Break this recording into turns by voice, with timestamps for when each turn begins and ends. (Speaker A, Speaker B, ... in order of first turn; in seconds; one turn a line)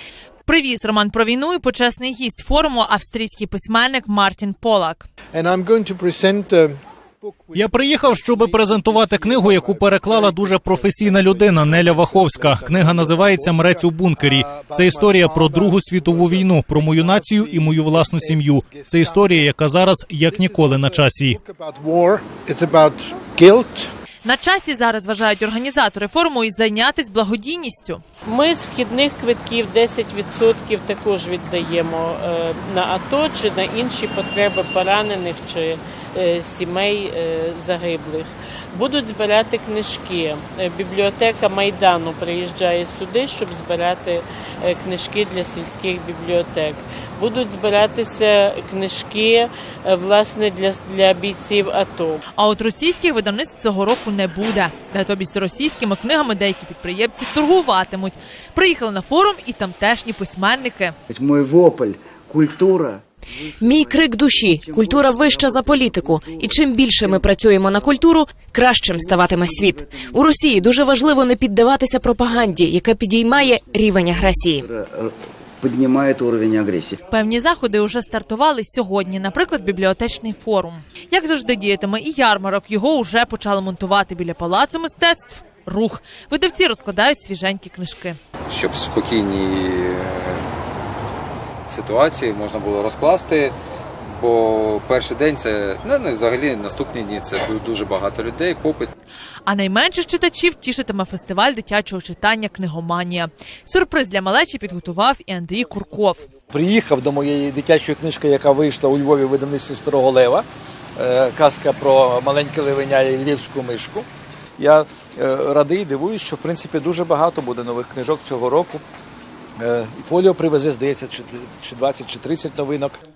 Speaker A: 0.5-5.1
Speaker B: 5.3-19.5
Speaker C: 7.5-21.4
Speaker B: 20.2-23.9
Speaker A: 24.2-28.0
Speaker D: 28.3-52.2
Speaker A: 52.4-61.0
Speaker E: 61.1-68.0
Speaker F: 63.6-74.7
Speaker E: 68.9-71.1
Speaker E: 73.3-77.0
Speaker A: 77.1-88.2
Speaker G: 88.5-90.5
Speaker G: 91.7-93.6
Speaker G: 94.2-98.9
Speaker A: 99.5-106.3
Speaker H: 106.5-110.5
Speaker H: 111.0-114.1
Speaker H: 114.6-118.8
Speaker H: 119.6-123.0